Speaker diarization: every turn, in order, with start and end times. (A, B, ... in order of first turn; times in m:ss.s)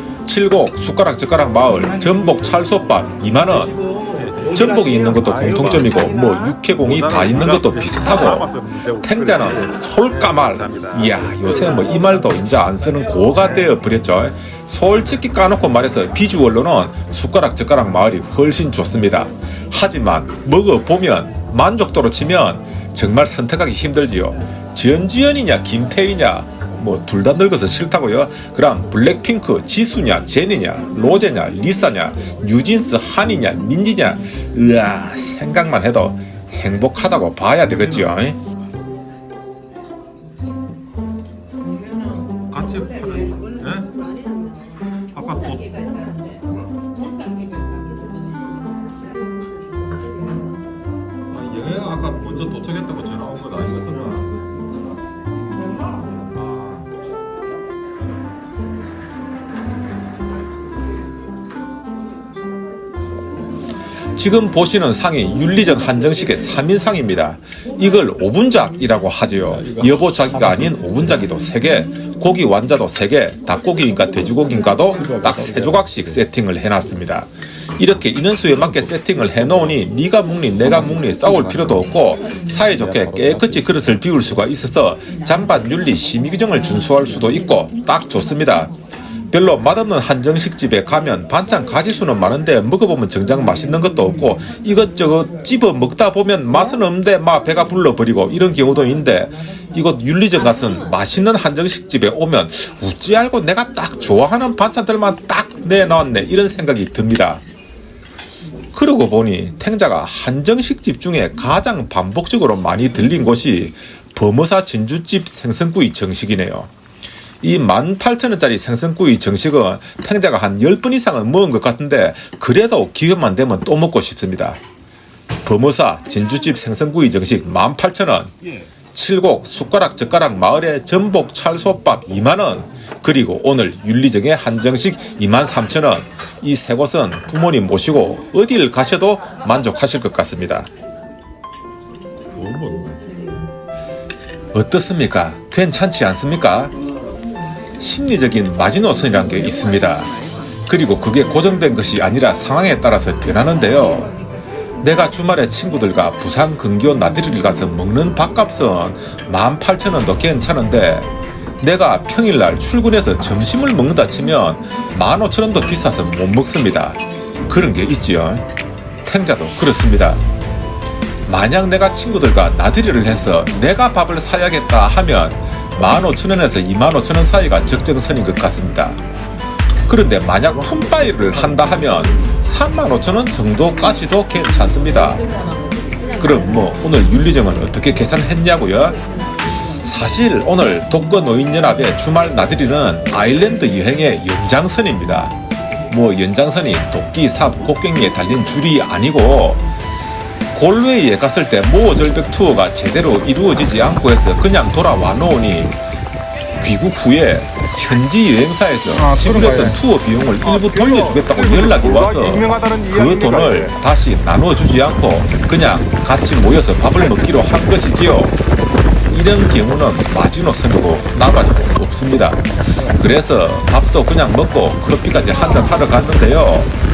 0:00.2-0:03.8 A
0:04.0-0:06.3 B
0:04.4-0:38.4 A
0:06.8-0:11.5 B
0:37.7-0:38.0 B
0:42.5-0:43.9 B
0:45.1-0:45.8 B
0:51.3-0:54.3 B
0:56.3-0:56.9 B
1:04.1-1:28.7 A
1:09.6-1:10.6 B
1:15.0-1:15.9 B
1:22.8-1:23.7 B
1:29.3-1:47.4 A
1:48.7-1:56.7 A
1:57.4-2:04.6 A
2:05.4-2:08.3 A
2:08.9-2:20.7 A
2:22.3-2:23.2 B
2:24.5-2:26.8 A
2:27.8-2:34.1 A
2:34.8-2:41.1 A
2:41.6-2:48.4 A
2:49.0-2:50.2 A
2:51.3-2:59.0 A
2:59.8-3:05.2 A
3:06.2-3:09.0 A
3:09.7-3:15.3 A
3:15.9-3:19.6 A
3:20.5-3:25.8 A
3:26.6-3:38.4 A
3:29.0-3:29.7 B
3:30.5-3:33.7 B
3:39.1-3:46.7 A